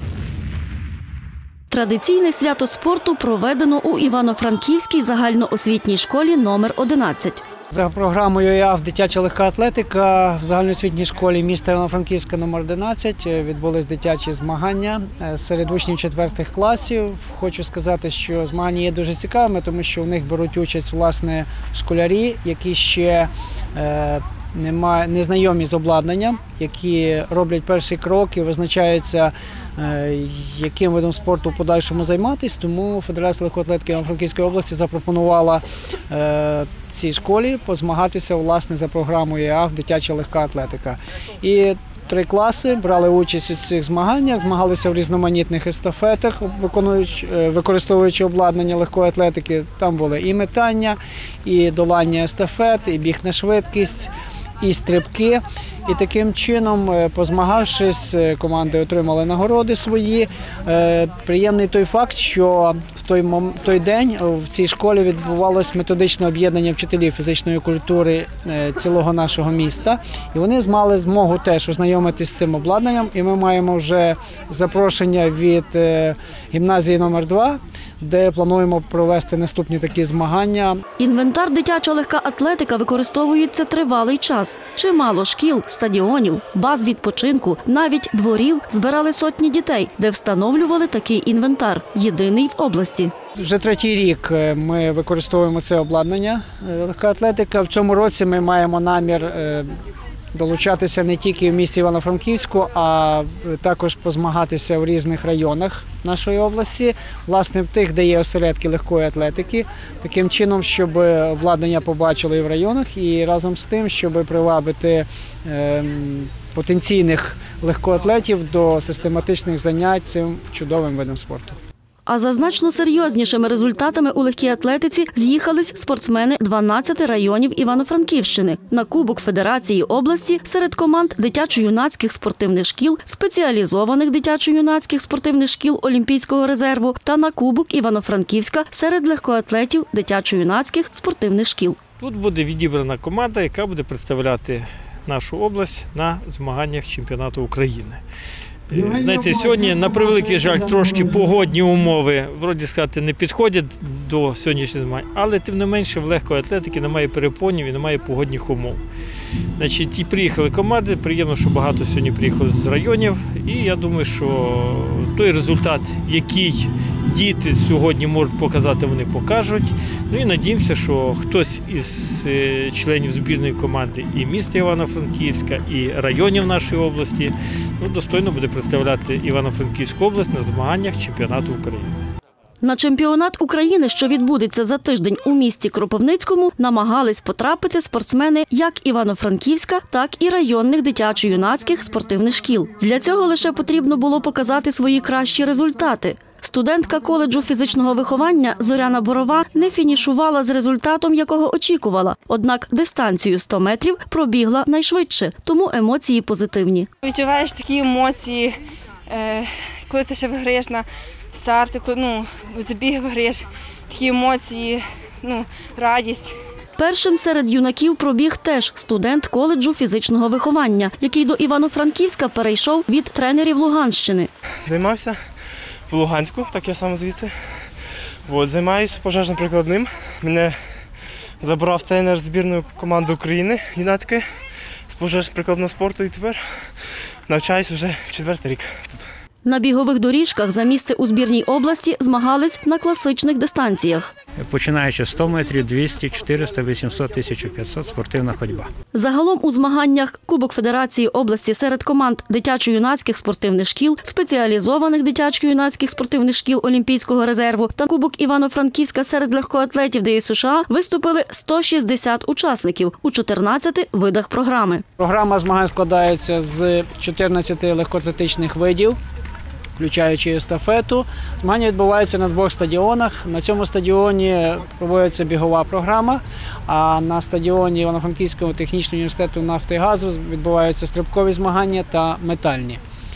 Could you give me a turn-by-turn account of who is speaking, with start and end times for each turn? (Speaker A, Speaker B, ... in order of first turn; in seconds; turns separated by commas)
Speaker A: 1.7-7.4, Speaker B: 7.7-80.8, Speaker A: 81.0-93.1, Speaker B: 93.4-99.7, Speaker B: 100.3-121.5, Speaker A: 122.1-141.8, Speaker C: 142.0-148.0, Speaker C: 148.7-158.8, Speaker C: 159.6-181.9, Speaker A: 182.6-206.9, Speaker D: 207.0-208.6, Speaker D: 209.1-216.3, Speaker A: 216.8-224.3, Speaker E: 224.7-225.2, Speaker E: 225.9-227.3, Speaker E: 228.3-230.5, Speaker E: 231.4-234.2, Speaker E: 234.9-236.7, Speaker E: 237.3-239.1, Speaker A: 239.4-244.1, Speaker F: 244.3-248.7, Speaker A: 248.9-264.8, Speaker B: 265.0-269.0, Speaker B: 269.8-282.8